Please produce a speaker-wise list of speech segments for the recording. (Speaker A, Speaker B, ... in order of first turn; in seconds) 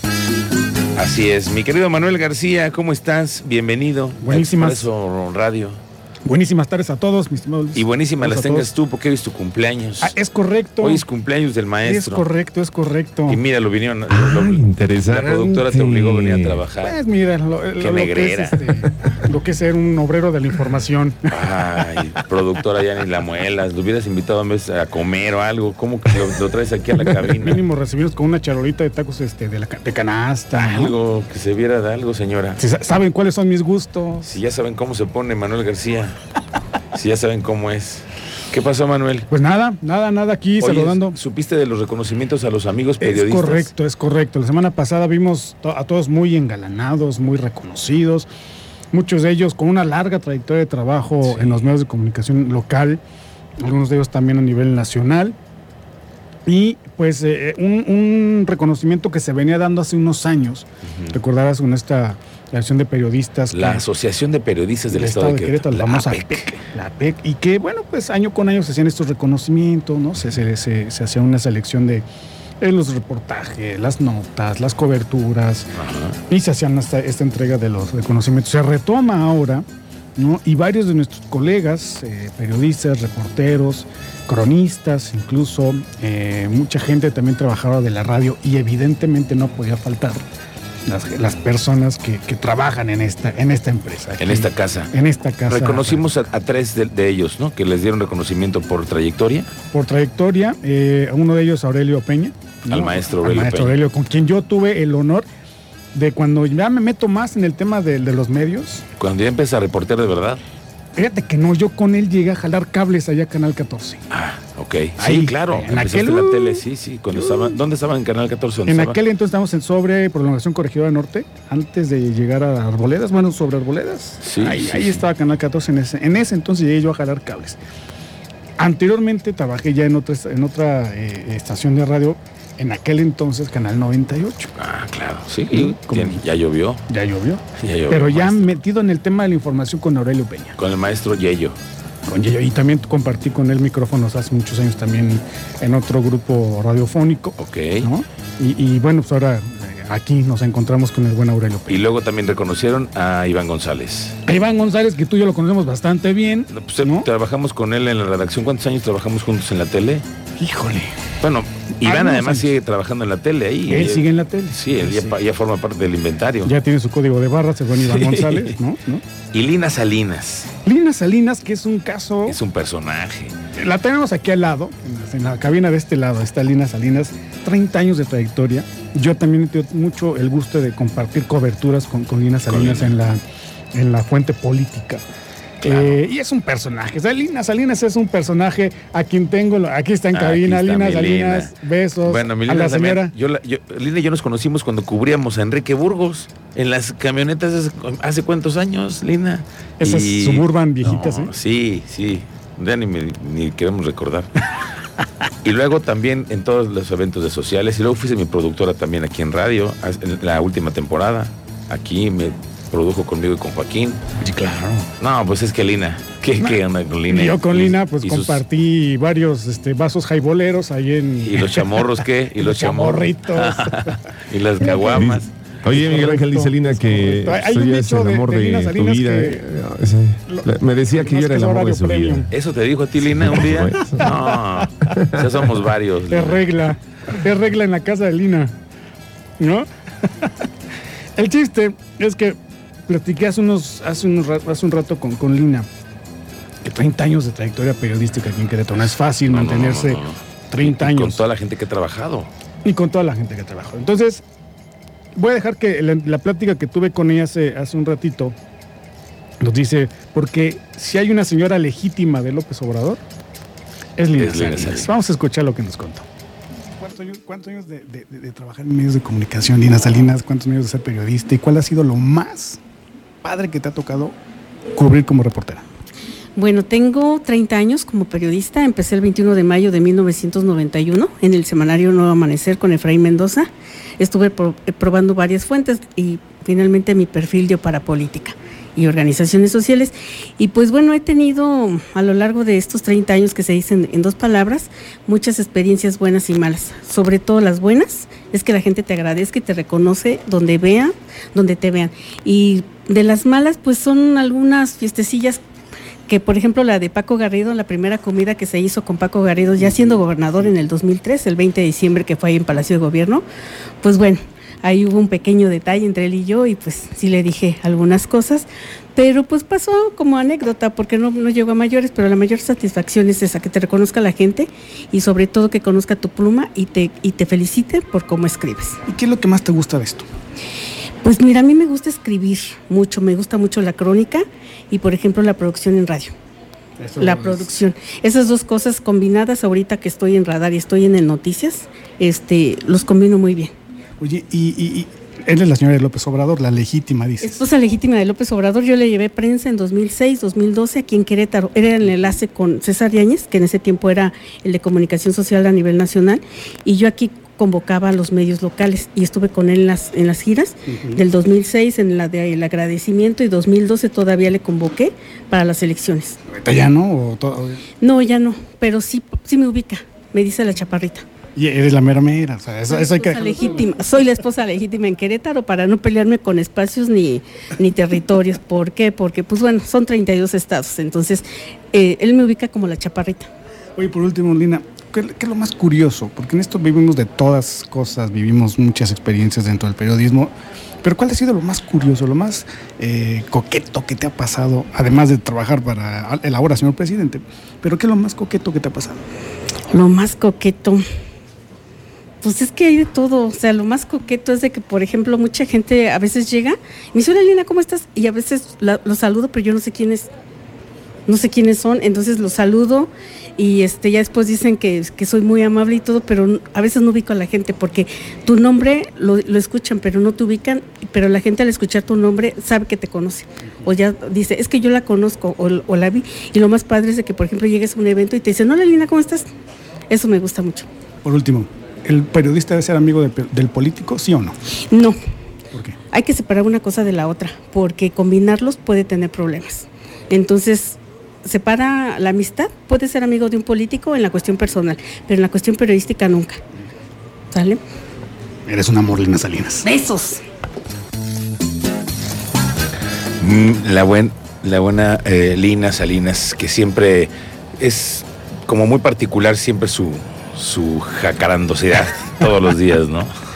Speaker A: 0.9-5.8, 7.8-10.2, 10.8-12.2, 13.3-17.0, 17.8-18.7, 21.3-27.6, 30.6-32.6, 34.2-36.1, 36.9-39.3, 40.6-43.7, 51.3-51.6, 60.9-61.2, 63.5-66.6, 75.8-76.1, 94.2-94.9, 95.5-99.5, 102.7-103.8, 109.0-110.4, 114.1-119.0, 124.2-125.0, 134.6-136.8, 137.6-138.6, 140.6-141.6, 147.4-147.9, 151.7-154.2, 156.5-160.1, 161.2-166.5, 167.8-168.6, 169.3-170.5, 172.3-173.3, 182.5-182.9, 185.6-186.0, 190.1-204.4, 205.4-218.4, 221.2-225.3, 232.3-236.5, 249.3-252.3, 264.1-264.9, 453.2-463.1
Speaker B: 4.2-4.9, 6.2-8.7, 10.0-11.0, 11.8-13.4, 16.8-22.0, 27.0-31.0, 32.6-34.3, 39.3-41.2, 43.0-48.3, 48.9-53.0, 53.6-55.4, 56.5-63.8, 64.9-72.0, 72.6-75.7, 76.3-90.2, 90.9-96.1, 99.7-105.3, 105.9-108.8, 111.0-114.0, 115.0-116.6, 117.1-117.6, 118.7-127.6, 128.6-134.5, 135.5-136.2, 136.9-140.6, 142.1-151.8, 154.3-157.1, 160.4-161.0, 161.8-162.5, 163.7-165.2, 166.4-169.0, 170.6-172.4, 173.5-183.2, 183.7-185.0, 185.6-193.1, 199.8-201.3, 216.4-224.0, 225.7-229.5, 230.3-232.3, 234.0-234.9, 236.1-238.5, 239.4-239.7, 241.2-245.7, 246.6-251.2, 252.6-254.2, 255.2-258.4, 259.4-263.0, 264.0-266.1, 266.8-272.6, 273.2-274.1, 274.7-275.6, 328.9-330.1, 336.8-337.6, 344.0-347.4, 360.7-361.0, 366.3-367.6, 371.4-373.6, 383.8-390.3, 390.8-399.0, 431.1-434.4, 448.4-449.7
Speaker C: 14.1-16.6, 224.7-232.3, 233.0-234.1, 234.9-235.3
Speaker D: 276.4-305.4, 306.1-313.2, 313.8-328.8, 331.0-336.1, 337.0-343.5, 347.2-366.2, 367.8-371.0, 372.7-383.3, 399.7-400.8, 402.2-410.1, 411.1-429.3, 429.9-430.7, 434.7-435.0, 435.9-446.4, 447.3-447.6, 449.6-450.2